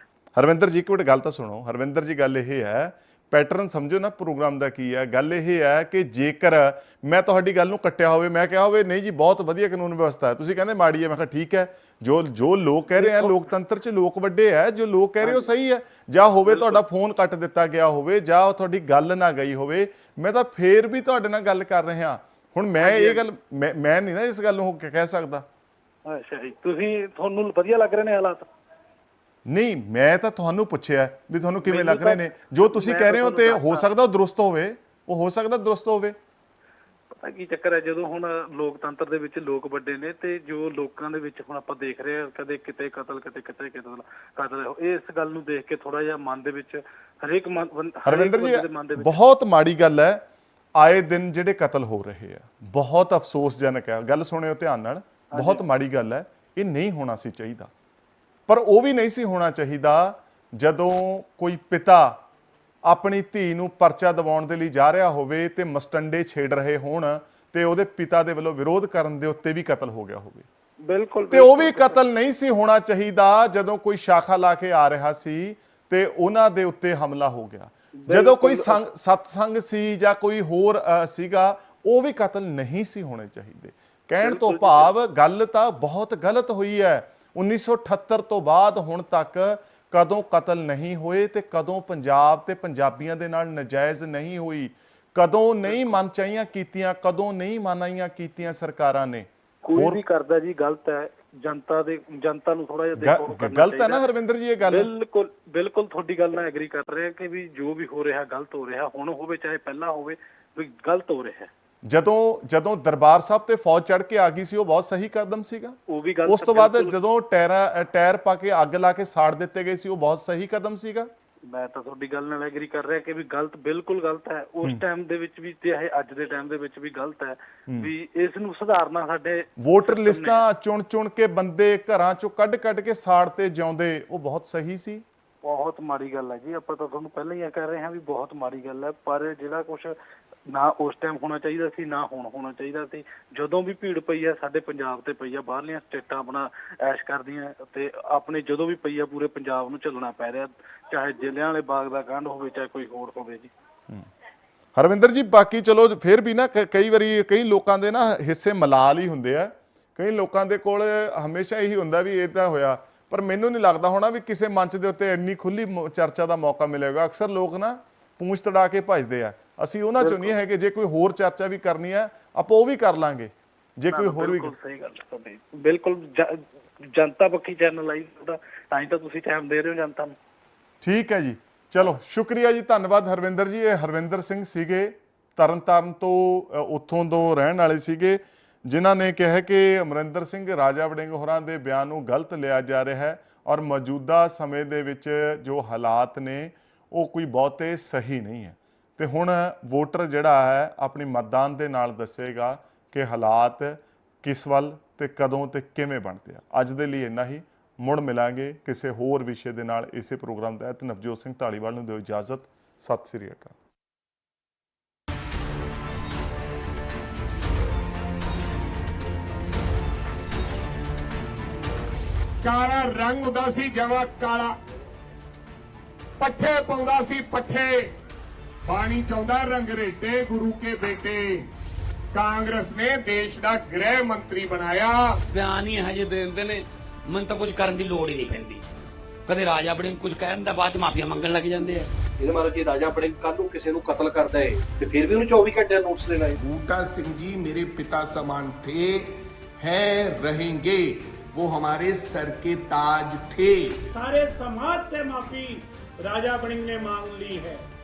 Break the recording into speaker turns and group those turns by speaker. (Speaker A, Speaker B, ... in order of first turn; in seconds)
Speaker A: 0.3-25.4, 29.4-36.1, 48.0-50.2, 50.8-57.7, 58.5-62.2, 62.9-70.5, 71.3-100.0, 103.0-104.9, 111.8-121.1, 129.6-135.0, 154.7-174.5, 180.8-213.5
Speaker B: 12.9-13.4, 15.2-15.5, 16.4-16.8, 22.8-23.2, 26.1-28.5, 31.6-33.9, 37.2-49.2, 55.3-55.6, 70.8-72.0, 78.0-78.8, 84.2-84.9, 95.7-96.0, 99.6-104.0, 104.6-111.5, 115.9-117.0, 121.5-130.4, 135.4-139.9, 140.5-153.5, 170.0-170.3, 173.9-176.4, 176.9-180.2
Speaker C: 222.4-224.5, 226.2-227.9, 228.7-231.5, 232.1-235.2
Speaker D: 235.3-238.6, 239.2-241.9
Speaker E: 242.2-246.4
Speaker F: 246.4-253.9
Speaker G: 253.9-257.6